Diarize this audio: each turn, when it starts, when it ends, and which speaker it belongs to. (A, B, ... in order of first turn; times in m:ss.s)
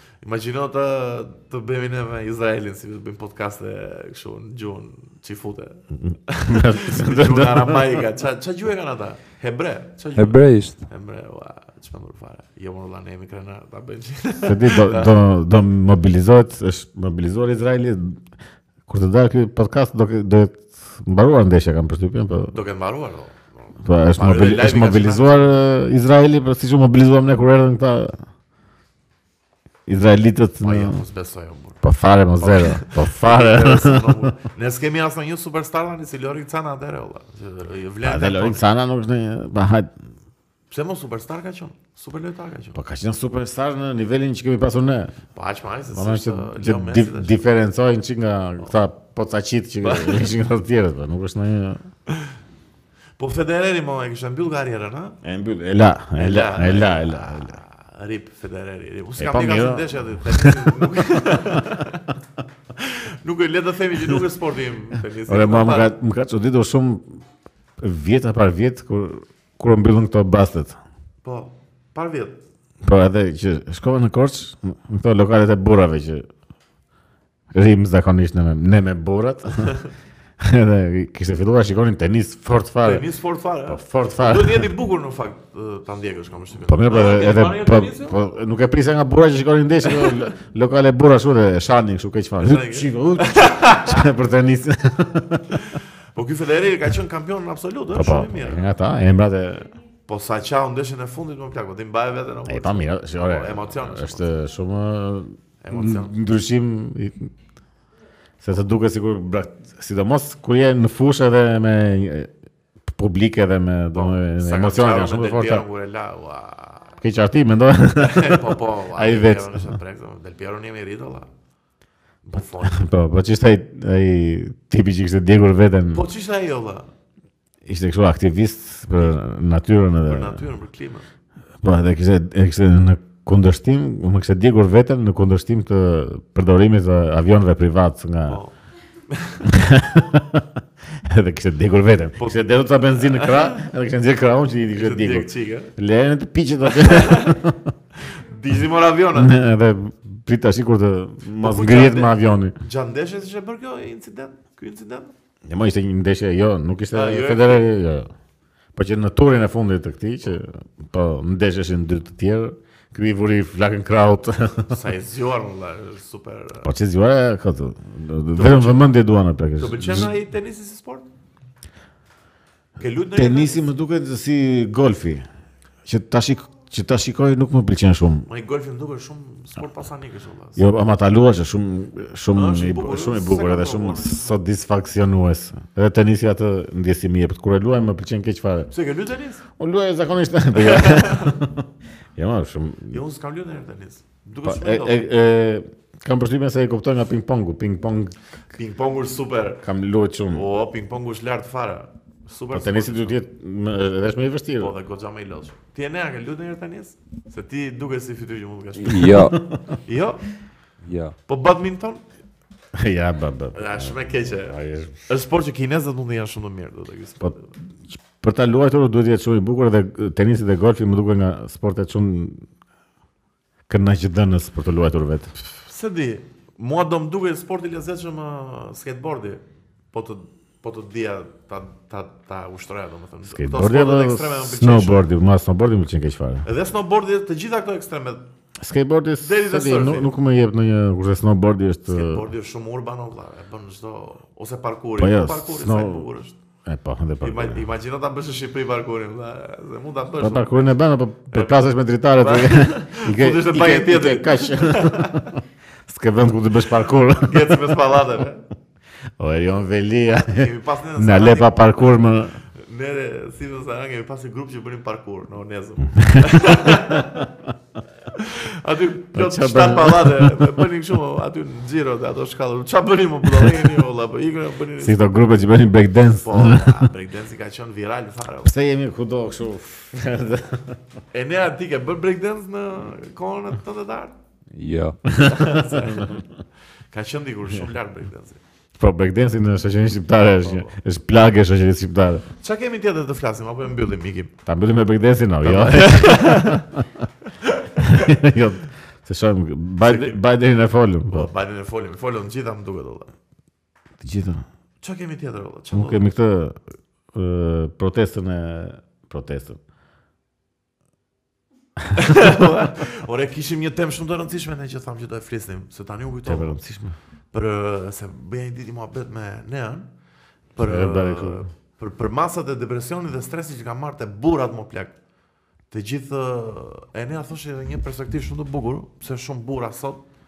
0:00.2-0:15.1 A
0:06.1-0:08.0 B
0:10.2-0:10.8 C
0:14.4-0:18.2 B
0:18.9-0:22.6 B
0:22.5-0:25.5 A
0:23.8-0:28.2 B
0:29.9-0:31.0 B
0:30.6-0:31.8 A
0:31.8-0:34.3 B
0:32.4-0:38.6 A
0:38.0-0:39.9 B
0:40.7-0:42.8 A
0:42.7-0:45.1 B
0:45.3-0:47.4 A
0:45.9-0:51.8 B
0:49.8-0:50.3 A
0:53.2-0:55.2 A
0:55.2-0:57.6 B
0:56.2-1:02.0 A
0:59.2-1:01.8 B
1:02.8-1:05.9 A
1:05.3-1:07.1 B
1:07.8-1:10.8 B
1:11.2-1:12.4 A
1:12.8-1:16.2 B
1:17.5-1:19.8 B
1:20.4-1:23.0 B
1:22.8-1:28.2 A
1:23.7-1:24.7 B
1:26.6-1:35.6 B
1:29.9-1:30.2 A
1:32.4-1:34.1 A
1:35.5-1:38.7 A
1:37.9-1:39.7 B
1:40.1-1:44.3 A
1:42.4-1:47.3 B
1:45.6-1:46.2 A
1:48.4-1:52.3 B
1:52.9-1:55.6 B
1:53.9-1:56.9 A
1:57.0-1:59.8 B
1:58.0-2:01.3 A
2:02.2-2:02.9 A
2:02.6-2:06.0 B
2:05.9-2:06.9 A
2:07.6-2:10.4 B
2:10.0-2:11.0 A
2:11.6-2:18.4 B
2:18.3-2:18.5 A
2:19.1-2:19.5 A
2:19.4-2:20.5 B
2:21.0-2:27.7 B
2:22.2-2:23.6 A
2:24.7-2:25.7 A
2:26.7-2:27.4 A
2:28.0-2:29.3 A
2:29.1-2:32.5 B
2:31.4-2:35.1 A
2:35.4-2:38.1 B
2:36.9-2:37.7 A
2:38.7-2:44.8 B
2:44.7-2:46.7 A
2:46.6-2:50.1 B
2:48.3-2:48.9 A
2:49.6-2:51.1 A
2:52.8-2:53.7 A
2:53.1-2:55.2 B
2:55.8-2:58.3 B
2:58.3-3:00.6 A
3:00.6-3:08.7 B
3:02.3-3:04.3 A
3:08.7-3:09.4 A
3:09.6-3:11.6 B
3:10.5-3:11.4 A
3:12.2-3:13.0 B
3:12.9-3:15.0 A
3:14.4-3:18.1 B
3:18.5-3:19.6 A
3:19.6-3:20.4 B
3:20.3-3:23.2 A
3:22.5-3:24.7 B
3:24.6-3:29.2 A
3:28.8-3:29.4 C
3:29.8-3:30.3 A
3:30.8-3:31.1 C
3:31.3-3:32.0 A
3:32.7-3:35.0 B
3:33.5-3:34.6 A
3:35.1-3:37.5 A
3:37.9-3:42.4 B
3:43.7-3:45.3 B
3:45.6-3:55.0 A
3:53.3-3:56.4 B
3:56.4-3:58.2 A
3:58.6-4:02.2 B
3:59.2-4:00.1 A
4:01.9-4:06.4 A
4:05.0-4:06.1 B
4:06.6-4:07.6 B
4:07.2-4:10.7 A
4:10.2-4:17.8 B
4:11.3-4:11.6 A
4:12.2-4:15.3 A
4:17.2-4:18.4 A
4:19.2-4:22.4 B
4:20.3-4:22.0 A
4:22.6-4:27.3 A
4:26.0-4:27.2 B
4:28.1-4:35.0 A
4:29.1-4:30.6 B
4:34.8-4:36.9 B
4:36.2-4:38.5 A
4:38.4-4:40.8 B
4:41.1-4:44.1 A
4:44.5-4:45.0 C
4:45.1-4:46.3 A
4:45.2-4:46.2 B
4:46.9-4:48.4 A
4:48.8-4:52.2 B
4:50.4-4:50.7 A
4:52.4-4:54.3 A
4:54.4-4:56.8 B
4:55.4-4:56.6 A
4:57.4-4:58.1 A
4:57.8-5:01.3 B
4:59.8-5:00.2 A
5:01.1-5:03.1 A
5:04.0-5:04.4 B
5:04.8-5:06.0 A
5:05.7-5:06.6 B
5:07.1-5:09.6 B
5:11.9-5:16.6 A
5:16.2-5:17.0 B
5:17.3-5:19.8 A
5:20.5-5:24.9 A
5:20.6-5:21.4 B
5:25.7-5:30.0 A